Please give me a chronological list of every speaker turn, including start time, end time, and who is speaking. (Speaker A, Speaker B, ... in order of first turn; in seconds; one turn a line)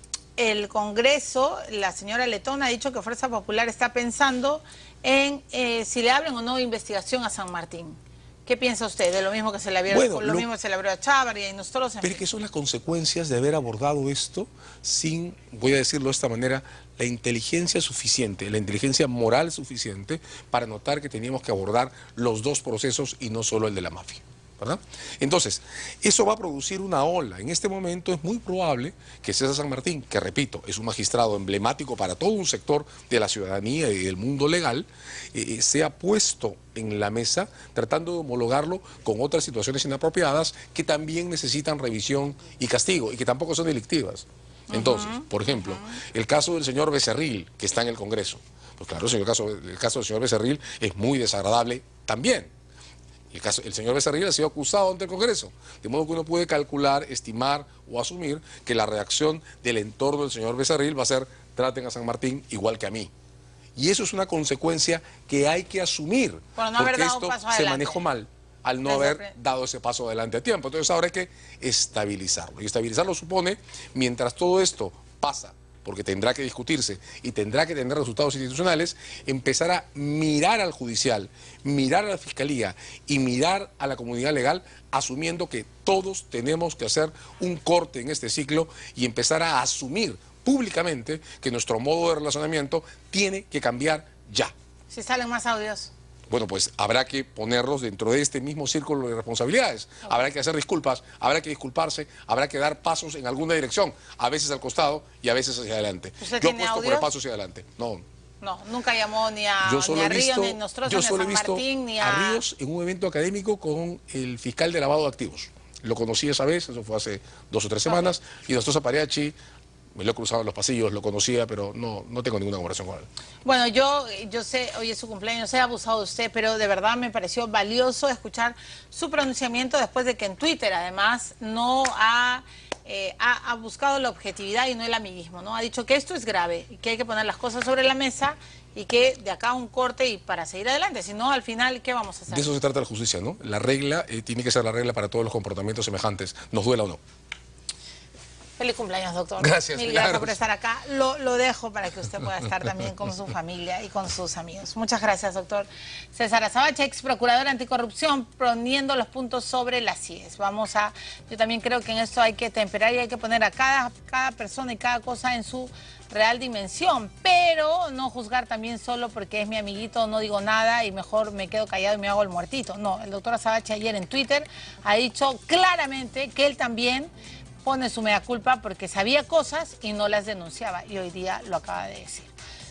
Speaker A: 0.4-12.2
Speaker B: 9.9-10.5
Speaker B: 12.0-52.5
Speaker A: 44.7-46.0
Speaker B: 53.3-63.1
Speaker B: 63.8-94.5
Speaker A: 66.6-68.0
Speaker A: 68.8-69.3
Speaker A: 94.9-95.9
Speaker B: 96.3-108.0
Speaker A: 106.2-107.1
Speaker A: 108.4-112.4
Speaker B: 109.6-119.4
Speaker A: 117.9-118.1
Speaker B: 120.0-123.1
Speaker A: 123.5-142.5
Speaker B: 142.3-147.0
Speaker A: 148.6-177.1
Speaker B: 149.4-150.4
Speaker A: 177.6-182.3